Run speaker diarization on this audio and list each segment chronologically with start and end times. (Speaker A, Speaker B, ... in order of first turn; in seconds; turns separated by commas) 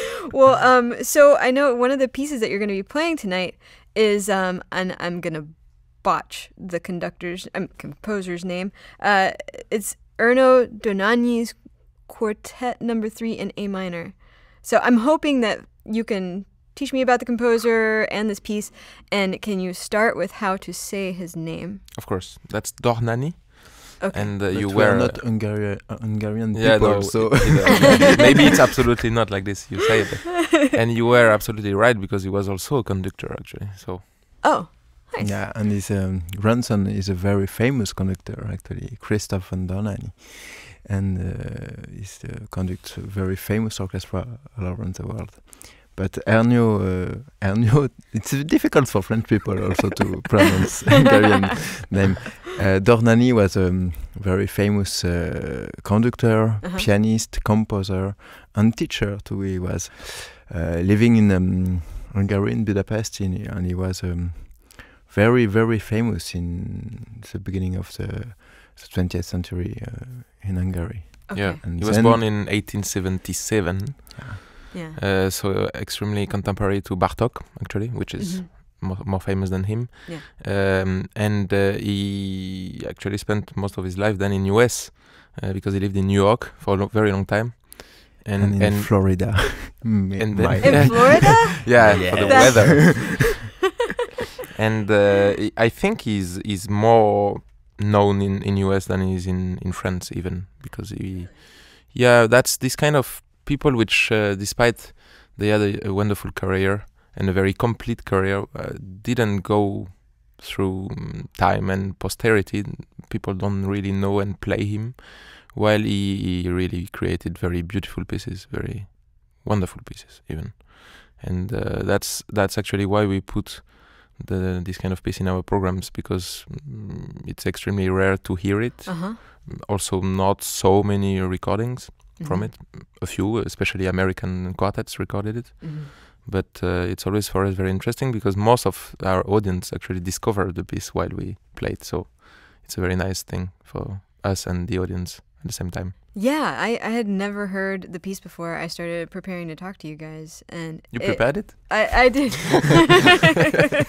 Speaker A: 0.3-21.9, Speaker B: 21.9-25.3, Speaker A: 24.0-24.3, Speaker C: 24.5-28.6, Speaker B: 26.5-34.1, Speaker A: 34.4-35.4, Speaker C: 35.2-72.2, Speaker A: 56.6-56.9, Speaker A: 71.3-71.6, Speaker B: 71.4-93.5, Speaker A: 74.7-75.0, Speaker A: 78.2-78.5, Speaker C: 88.4-93.2, Speaker A: 90.6-93.4, Speaker B: 94.5-146.0, Speaker A: 128.9-129.2, Speaker A: 132.2-132.5, Speaker A: 135.6-135.9, Speaker A: 146.1-153.6, Speaker B: 150.9-152.2